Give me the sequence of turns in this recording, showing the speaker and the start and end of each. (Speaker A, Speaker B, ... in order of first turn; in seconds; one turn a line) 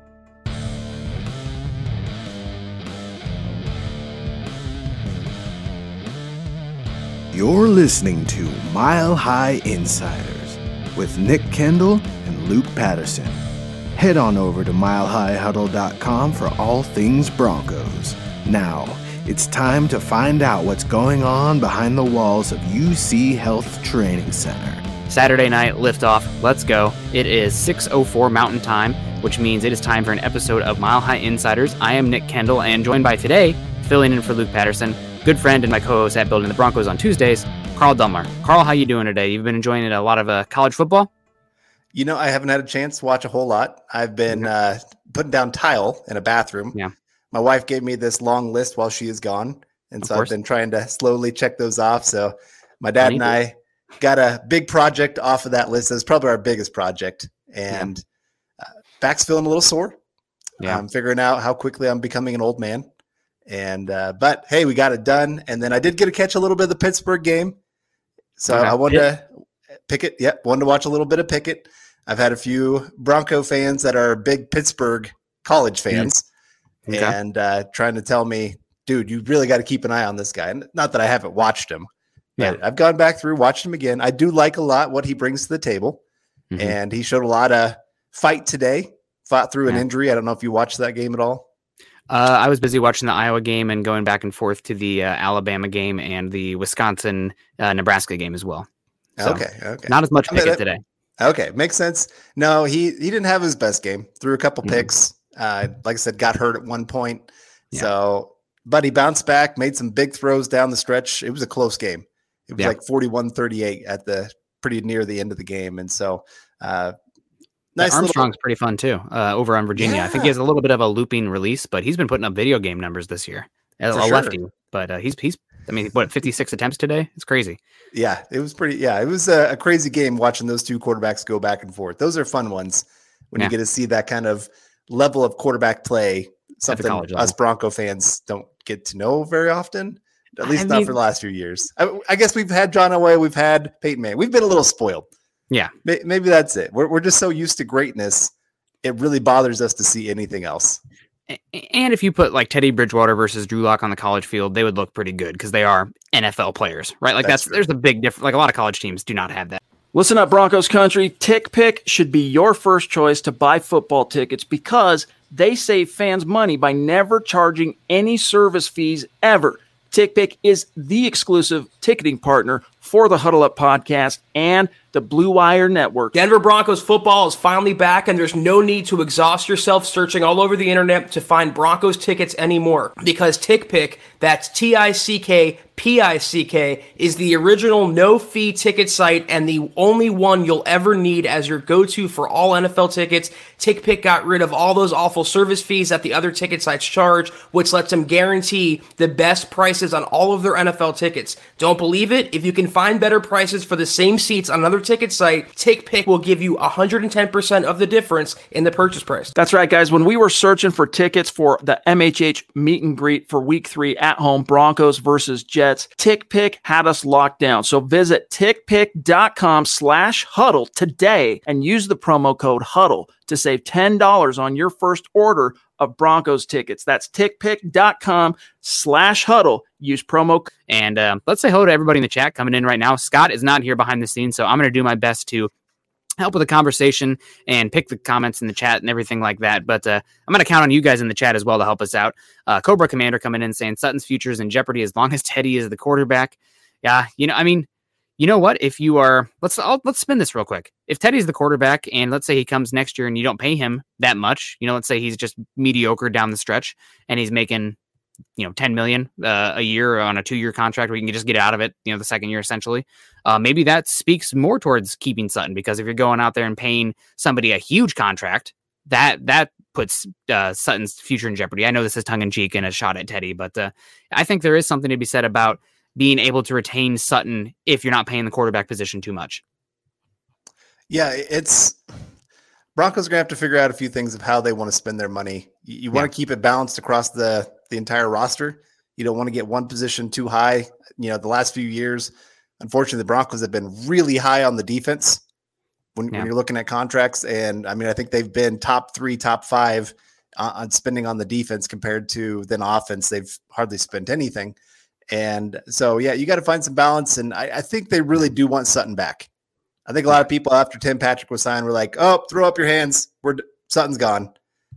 Speaker A: 7.3-13.4
Speaker A: 14.0-24.9
Speaker B: 25.1-41.1
Speaker C: 41.9-46.8
Speaker C: 47.3-58.0
Speaker B: 50.0-50.3
Speaker B: 53.0-53.3
Speaker C: 58.6-60.0
Speaker C: 60.6-62.9
Speaker C: 63.5-67.6
Speaker C: 68.4-69.3
Speaker B: 68.5-69.0
Speaker C: 69.9-76.3
Speaker B: 76.9-77.2
Speaker C: 76.9-86.0
Speaker C: 86.6-91.5
Speaker B: 92.1-98.7
Speaker C: 99.2-100.6
Speaker B: 99.2-100.8
Speaker C: 101.2-117.0
Speaker C: 117.8-118.3
Speaker B: 117.8-127.6
Speaker C: 119.8-120.3
Speaker C: 123.9-124.4
Speaker C: 127.9-145.1
Speaker B: 136.7-137.3
Speaker B: 140.5-140.9
Speaker C: 145.8-148.3
Speaker C: 148.8-150.8
Speaker B: 151.3-159.6
Speaker C: 157.2-157.6
Speaker D: 159.9-176.2
Speaker E: 176.1-209.3
Speaker D: 209.3-230.5
Speaker B: 230.7-235.5
Speaker B: 236.2-247.7
Speaker B: 248.2-257.8
Speaker B: 258.4-279.4
Speaker C: 280.9-281.8
Speaker C: 282.8-295.2
Speaker C: 296.0-304.6
Speaker C: 305.1-309.3
Speaker C: 309.9-314.3